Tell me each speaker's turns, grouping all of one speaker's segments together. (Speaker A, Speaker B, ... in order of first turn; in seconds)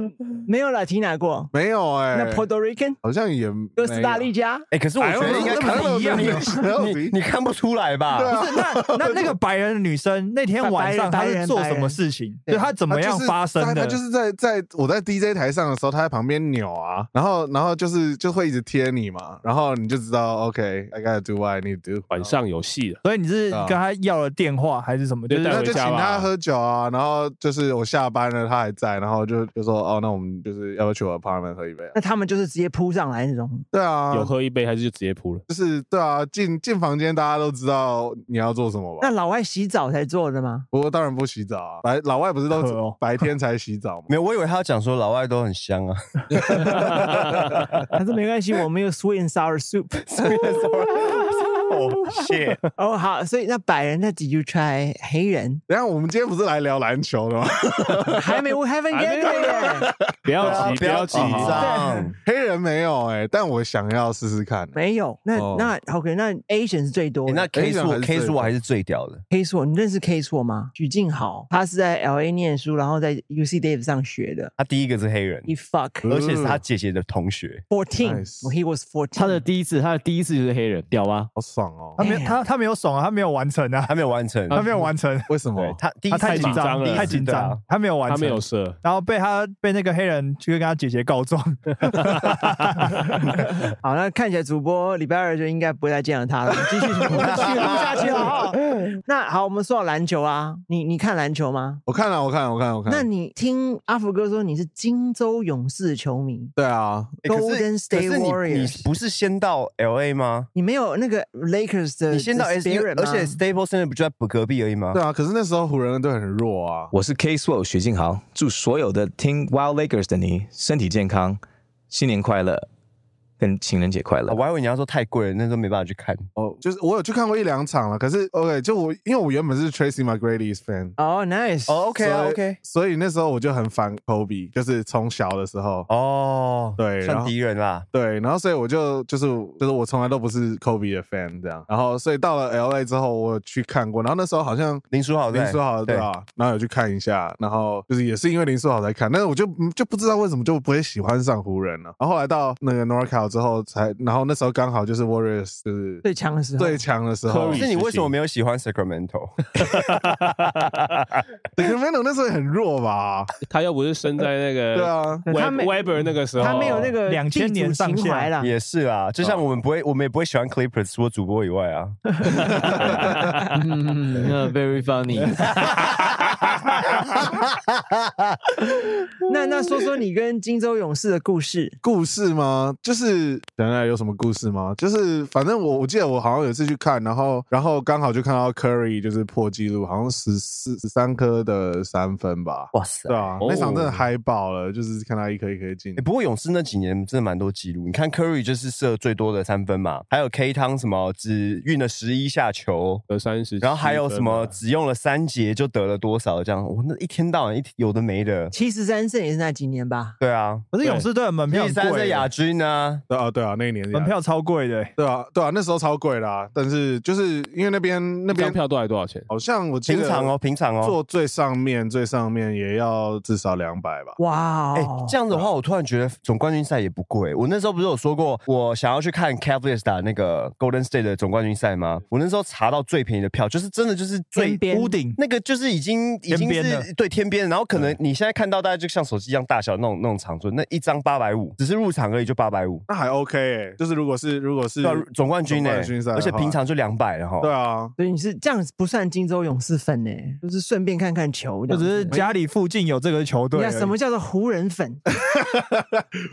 Speaker A: 0.5-1.5, 2.1-3.0, 3.8-4.7, 10.6-12.0, 31.9-33.6, 39.0-40.7, 47.9-52.1, 52.7-55.6, 58.1-59.9, 61.2-62.1, 64.7-67.5, 69.3-74.5, 75.5-76.1, 77.7-79.4, 82.0-82.4, 93.7-101.8, 102.9-106.5, 107.2-108.8, 110.5-113.4, 131.0-131.8, 156.0-156.8, 165.2-168.5, 179.2-181.8, 208.5-210.2, 224.2-225.1, 234.3-235.0, 248.0-252.3, 253.5-255.0
Speaker B: 1.5-2.5, 3.0-4.3, 5.0-7.2, 8.1-9.4, 12.8-22.3, 23.5-23.8, 25.5-31.9, 33.7-34.3, 35.5-39.1, 40.7-44.1, 55.7-58.4, 60.3-61.6, 62.2-64.8, 65.3-65.7, 67.5-68.5, 76.0-76.6, 78.0-78.5, 81.3-82.0, 85.3-85.8, 101.8-103.1, 106.5-107.2, 114.9-116.9, 126.3-130.9, 132.0-135.9, 136.8-137.3, 137.9-156.0, 156.6-157.7, 161.5-163.3, 164.7-165.3, 181.8-196.0, 213.1-214.1, 215.0-218.6, 219.3-224.2, 242.9-246.6, 247.4-247.9, 255.6-256.0
Speaker C: 4.7-8.4, 44.1-47.8, 50.0-52.7, 60.4-62.1, 67.3-69.2, 74.6-75.5, 76.0-77.6, 83.9-84.6, 85.5-87.6, 97.1-98.3, 107.2-110.5, 112.1-115.0, 124.3-126.2, 131.7-132.6, 135.9-137.8, 144.9-146.1, 157.5-159.7, 168.4-172.0, 175.7-176.3, 176.9-178.2, 192.7-193.4, 196.0-203.0, 203.6-208.5, 210.2-210.7, 211.4-213.0, 219.9-221.0, 224.7-242.8, 244.8-247.5
Speaker D: 5.0-6.6, 8.3-14.0, 23.0-25.9, 42.5-43.0, 82.0-83.9, 84.5-85.5, 86.1-93.3, 167.0-168.3, 210.7-212.3, 213.9-214.9, 234.7-235.2, 236.3-236.8, 251.7-253.9
Speaker E: 22.1-23.0, 25.3-26.3, 34.1-35.4, 58.9-61.7, 84.5-84.8, 86.2-87.2, 88.0-88.8, 91.9-92.5, 157.3-158.1, 163.5-166.9, 193.4-194.1, 203.1-204.6, 218.3-219.3
Speaker F: 79.1-81.3, 173.5-175.7
Speaker G: 116.9-122.7, 123.4-124.4